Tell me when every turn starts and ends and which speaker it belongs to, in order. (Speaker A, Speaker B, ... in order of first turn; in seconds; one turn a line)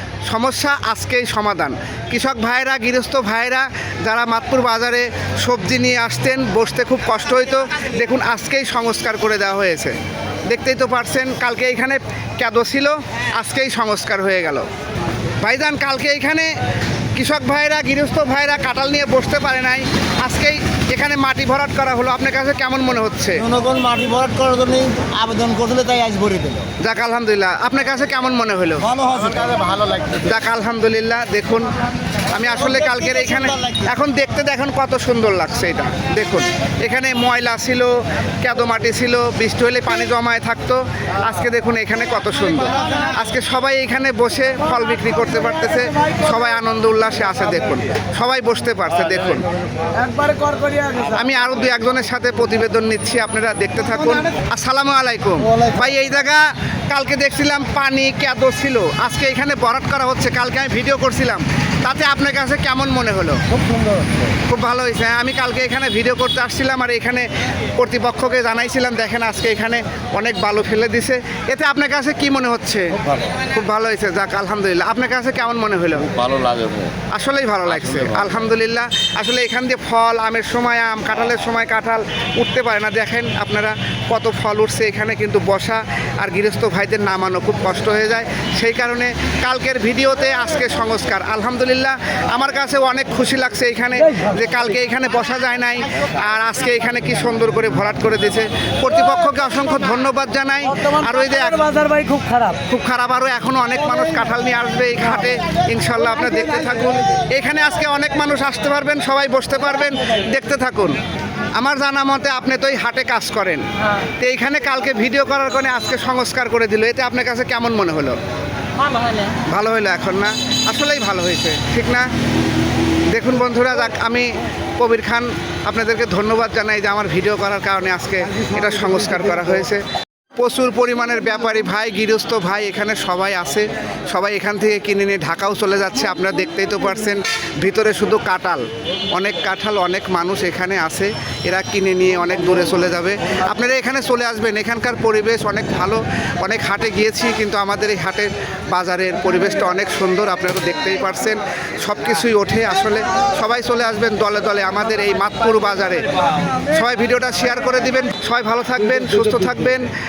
Speaker A: 0.2-10.0
Speaker A: 10.5-14.7
Speaker A: 15.4-16.5
Speaker A: 17.1-23.5
Speaker B: 23.4-26.7
Speaker A: 26.8-28.9
Speaker B: 28.9-30.2
Speaker A: 30.2-31.7
Speaker A: 32.3-49.5
Speaker B: 33.4-33.8
Speaker C: 50.1-50.9
Speaker A: 50.9-63.4
Speaker A: 64.5-76.4
Speaker C: 76.2-76.9
Speaker A: 77.0-111.0
Speaker C: 101.9-102.4
Speaker A: 111.5-118.2
Speaker A: 119.3-122.1
Speaker A: 123.1-129.8
Speaker A: 130.4-156.1
Speaker A: 156.7-159.9